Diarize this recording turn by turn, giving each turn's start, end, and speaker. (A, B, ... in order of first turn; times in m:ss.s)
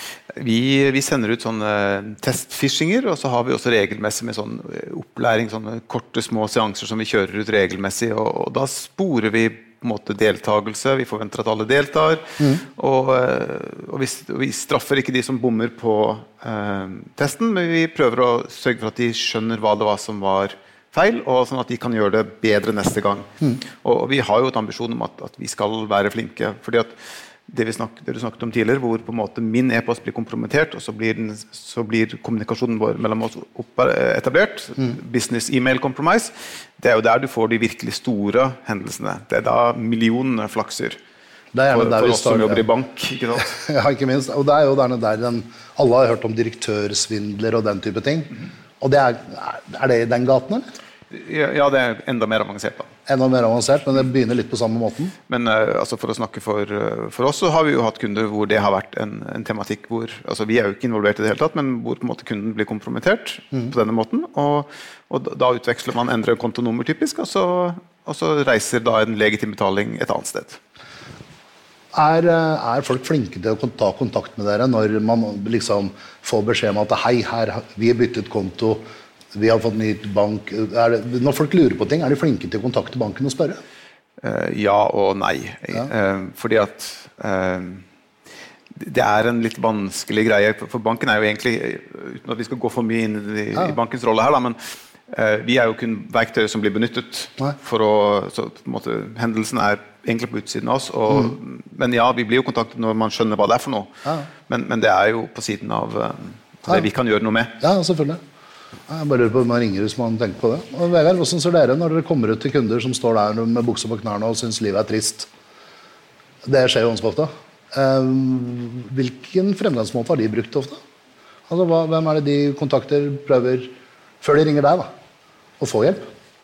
0:00.4-0:23.3 A
0:23.8-0:26.9 A
0:27.5-0:41.0 A
0:41.5-0:42.6 B
0:41.7-0:43.5 A
0:43.4-0:50.6 B
0:51.1-0:52.9 A
0:53.1-0:55.1 B
0:55.3-1:10.6 A
1:11.9-1:18.8 B
1:19.3-1:23.6 B
1:24.2-1:27.8 A
1:28.8-1:43.9 A
1:44.5-1:47.6 A
1:47.6-1:48.2 B
1:48.9-1:55.3 B
1:56.4-2:00.8 B
2:01.5-2:04.9 B
2:05.6-2:06.1 B